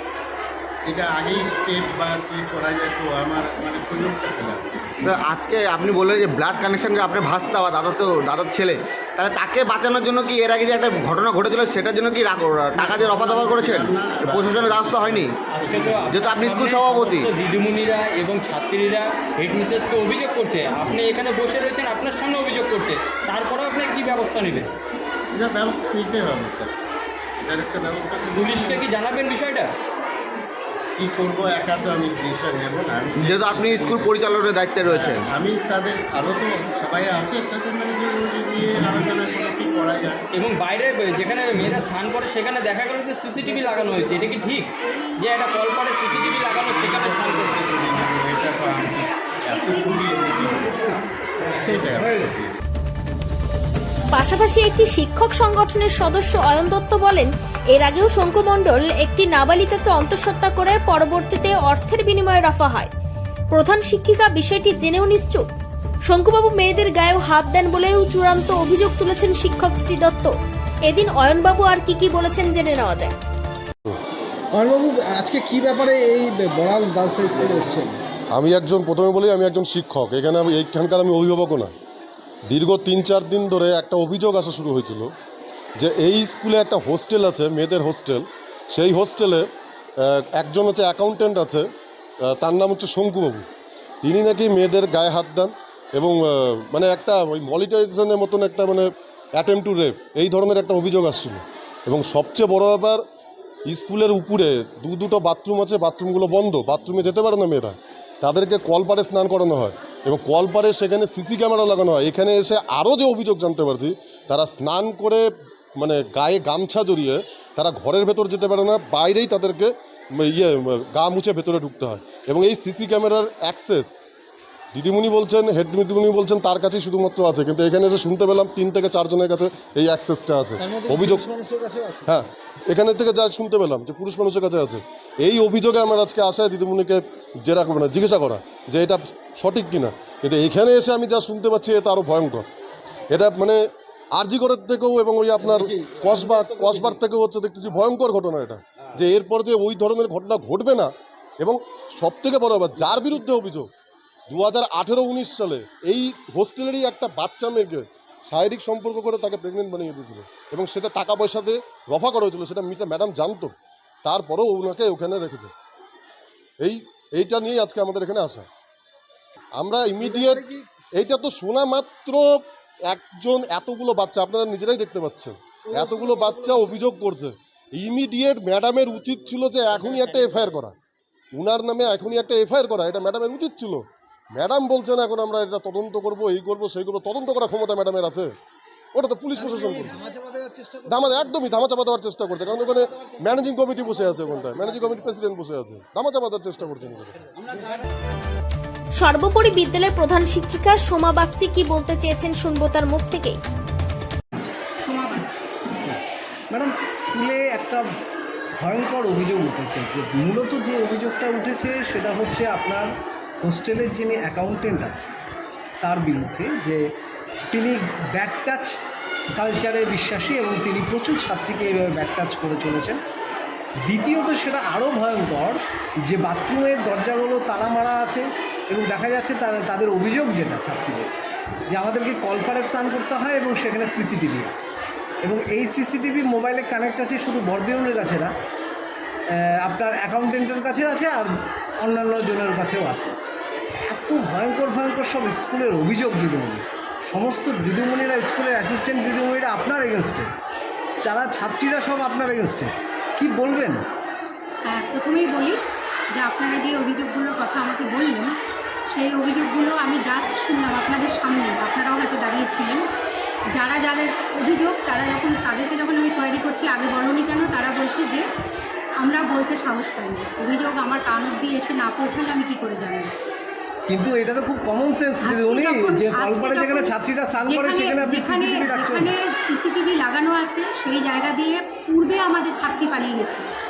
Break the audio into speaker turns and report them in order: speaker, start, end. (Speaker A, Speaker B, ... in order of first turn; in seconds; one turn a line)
Speaker A: 0.9-5.0
Speaker B: 5.0-15.3
Speaker A: 12.8-16.1
Speaker C: 15.5-24.7
Speaker B: 16.1-17.3
Speaker A: 25.3-26.7
Speaker A: 27.4-28.9
Speaker C: 28.3-29.7
Speaker A: 31.0-34.1
Speaker B: 33.2-35.2
Speaker A: 34.9-40.2
Speaker C: 40.3-47.7
Speaker A: 46.1-52.5
Speaker D: 51.6-52.3
Speaker E: 54.1-62.9
Speaker E: 63.5-65.5
Speaker E: 66.1-70.3
Speaker E: 70.9-73.1
Speaker D: 74.5-78.0
Speaker F: 78.3-81.7
Speaker F: 82.5-85.1
Speaker F: 85.8-89.4
Speaker F: 90.0-91.6
Speaker F: 92.2-93.5
Speaker F: 94.0-103.0
Speaker F: 103.7-115.2
Speaker F: 115.8-123.9
Speaker F: 124.7-131.2
Speaker D: 130.6-132.1
Speaker F: 132.1-142.4
Speaker F: 143.1-143.6
Speaker F: 144.2-153.7
Speaker D: 146.1-146.9
Speaker F: 154.3-163.5
Speaker F: 164.0-165.5
Speaker F: 166.6-168.4
Speaker F: 169.6-180.7
Speaker D: 170.0-170.6
Speaker D: 175.7-176.9
Speaker F: 181.3-183.8
Speaker F: 184.3-188.3
Speaker F: 188.9-189.9
Speaker D: 189.3-191.3
Speaker F: 190.9-197.2
Speaker D: 192.4-195.1
Speaker D: 197.3-197.8
Speaker E: 199.0-203.3
Speaker G: 204.8-205.4
Speaker D: 206.5-207.8
Speaker D: 208.6-212.9
Speaker D: 213.4-215.1
Speaker D: 215.8-216.8
Speaker D: 217.5-218.8
Speaker D: 219.3-223.0
Speaker D: 223.8-231.1
Speaker D: 231.7-234.7
Speaker D: 235.2-238.3
Speaker D: 239.3-243.1
Speaker D: 243.8-250.3
Speaker D: 251.0-253.8
Speaker G: 254.6-255.6
Speaker G: 256.1-258.3
Speaker G: 258.9-262.8
Speaker G: 263.5-268.2
Speaker G: 269.0-273.1
Speaker D: 273.9-279.1
Speaker G: 275.2-283.5